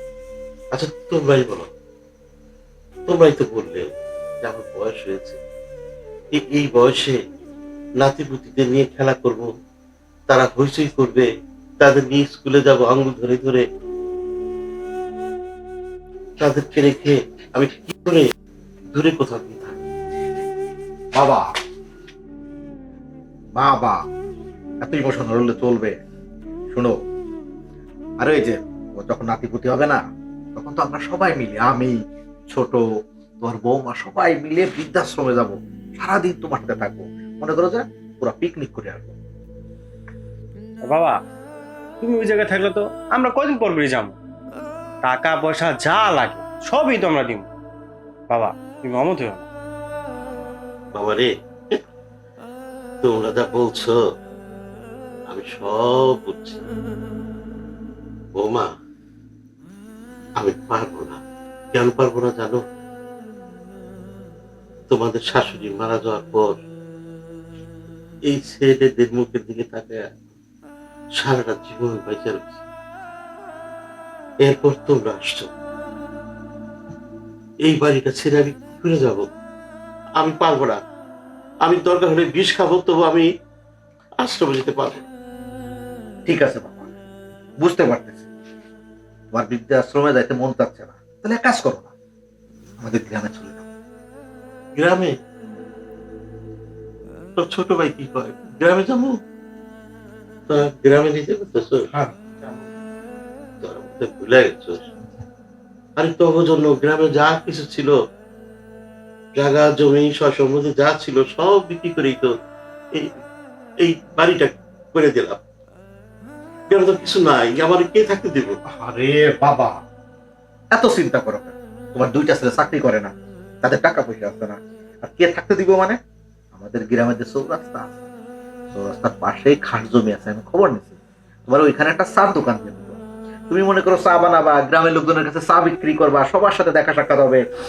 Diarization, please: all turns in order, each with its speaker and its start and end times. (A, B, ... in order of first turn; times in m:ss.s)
0:00.7-0:01.7 A
0:03.1-0:05.4 A
0:06.3-0:07.2 A
0:08.0-0:09.5 A
0:10.3-0:11.3 A
0:11.8-0:13.6 A
0:16.4-0:18.3 A
0:18.9-0:19.8 A
0:21.1-0:21.5 B
0:23.5-0:24.0 B
0:24.8-0:26.0 B
0:26.7-0:27.0 B
0:28.2-0:30.0 B
0:30.5-0:32.8 B
0:33.4-0:39.2 B
0:40.8-0:41.2 C
0:42.0-0:44.2 C
0:45.0-0:47.5 C
0:48.3-0:49.5 C
0:50.9-0:51.8 A
0:53.0-0:54.0 A
0:55.3-0:56.6 A
0:58.3-0:58.7 A
1:00.4-1:01.2 A
1:01.7-1:02.6 A
1:04.9-1:06.6 A
1:08.3-1:10.2 A
1:11.2-1:12.6 A
1:14.4-1:15.5 A
1:17.6-1:19.3 A
1:20.2-1:20.8 A
1:21.6-1:23.3 A
1:24.2-1:25.1 A
1:26.2-1:26.9 B
1:27.6-1:28.3 B
1:29.3-1:31.9 B
1:32.8-1:33.6 B
1:34.7-1:35.1 A
1:37.4-1:39.2 A
1:40.5-1:41.9 A
1:43.6-1:44.9 A
1:46.0-1:47.9 A
1:49.3-1:52.3 A
1:53.8-1:55.4 A
1:56.7-1:58.6 A
1:58.7-1:59.8 B
2:00.7-2:06.0 B
2:06.5-2:07.9 B
2:08.7-2:11.0 B
2:11.5-2:17.4 B